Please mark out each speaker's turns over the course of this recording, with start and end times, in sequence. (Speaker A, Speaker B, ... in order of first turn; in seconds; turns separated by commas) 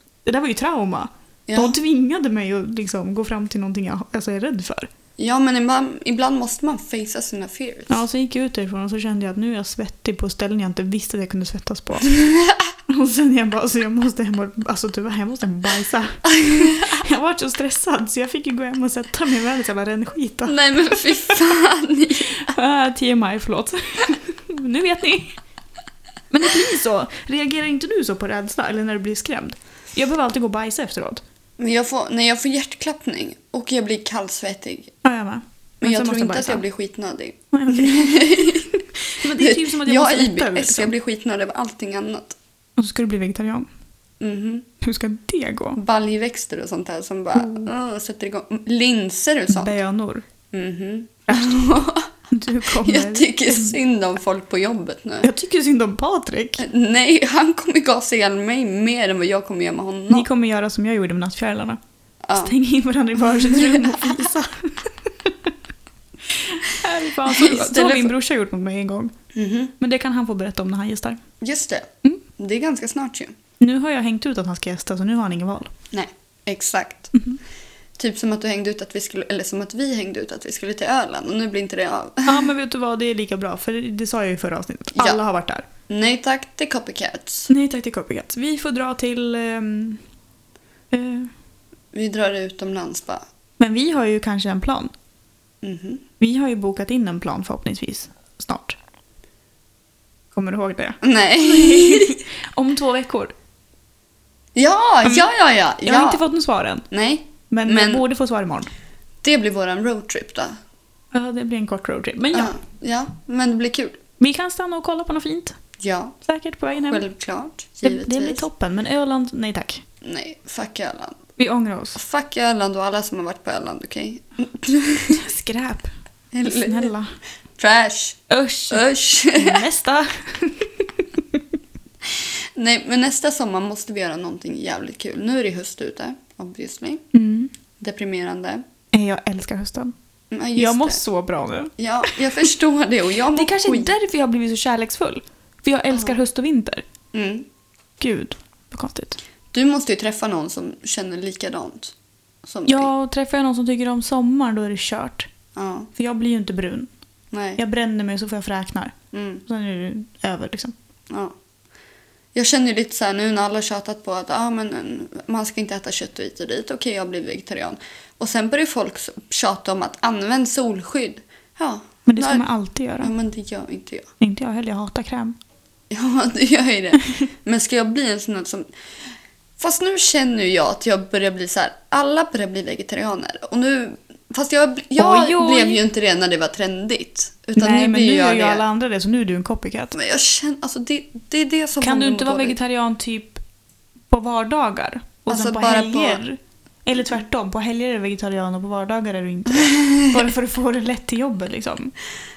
Speaker A: 0.2-4.9, Speaker B: 1.5-1.8, Speaker B: 5.2-8.0, Speaker A: 7.9-12.1, Speaker B: 12.1-12.6, Speaker A: 12.9-21.1, Speaker B: 16.3-16.9, Speaker B: 20.5-22.5, Speaker A: 22.4-25.4, Speaker A: 26.3-31.2, Speaker B: 31.6-34.9, Speaker A: 35.0-36.6, Speaker B: 35.8-38.7, Speaker A: 37.5-40.9, Speaker B: 39.3-42.4, Speaker A: 42.8-43.7, Speaker B: 44.2-44.7, Speaker A: 44.8-45.8, Speaker B: 45.8-49.7, Speaker A: 47.4-47.7, Speaker A: 49.5-50.2, Speaker B: 50.5-52.1, Speaker A: 51.3-51.7, Speaker A: 52.3-53.8, Speaker B: 52.8-55.3, Speaker A: 55.2-56.6, Speaker B: 56.6-60.3, Speaker A: 60.1-61.8, Speaker B: 62.2-62.5, Speaker A: 62.4-65.5, Speaker B: 63.5-64.0, Speaker A: 66.3-69.1, Speaker B: 67.3-68.1, Speaker B: 69.3-69.7, Speaker A: 69.8-71.2, Speaker B: 71.4-73.3, Speaker A: 73.6-75.7, Speaker B: 75.9-77.2, Speaker B: 78.0-82.5, Speaker A: 82.2-85.7, Speaker B: 85.0-85.2, Speaker B: 85.9-87.5, Speaker A: 87.5-90.0, Speaker A: 90.9-91.3, Speaker B: 91.9-93.2, Speaker A: 93.6-94.9, Speaker B: 95.6-96.0, Speaker A: 96.2-98.8, Speaker A: 100.3-103.3, Speaker B: 101.0-102.2, Speaker B: 104.6-106.2, Speaker A: 105.8-106.8, Speaker B: 106.9-108.0, Speaker A: 107.5-108.7, Speaker B: 109.2-110.5, Speaker A: 111.1-112.5, Speaker B: 112.3-114.0, Speaker A: 114.2-115.5, Speaker B: 115.8-116.2, Speaker A: 116.2-117.0, Speaker B: 116.9-118.5, Speaker A: 117.8-119.8, Speaker B: 120.0-121.2, Speaker A: 121.4-122.0, Speaker B: 122.0-125.2, Speaker A: 125.1-125.9, Speaker B: 126.3-126.9, Speaker A: 126.5-127.1, Speaker B: 127.6-129.6, Speaker A: 128.3-131.4, Speaker B: 132.2-137.0, Speaker A: 137.1-137.5, Speaker B: 137.8-138.6, Speaker A: 138.9-139.9, Speaker B: 140.3-141.0, Speaker A: 140.6-142.5, Speaker B: 141.8-143.9, Speaker A: 143.3-146.8, Speaker B: 147.1-147.5, Speaker A: 148.0-149.2, Speaker B: 149.5-152.9, Speaker A: 152.7-155.3, Speaker B: 155.6-155.9, Speaker A: 156.0-156.9, Speaker B: 157.3-157.6, Speaker A: 157.6-158.9, Speaker B: 159.1-159.4, Speaker A: 159.5-160.7, Speaker B: 161.1-161.3, Speaker B: 162.3-172.5, Speaker A: 172.1-173.1, Speaker B: 173.0-174.1, Speaker A: 174.2-175.4, Speaker B: 175.9-178.7, Speaker B: 179.6-188.6, Speaker A: 185.0-185.8, Speaker A: 187.6-190.0, Speaker B: 189.9-192.6, Speaker A: 191.8-193.4, Speaker A: 194.1-201.9, Speaker B: 195.3-196.2, Speaker B: 199.6-200.1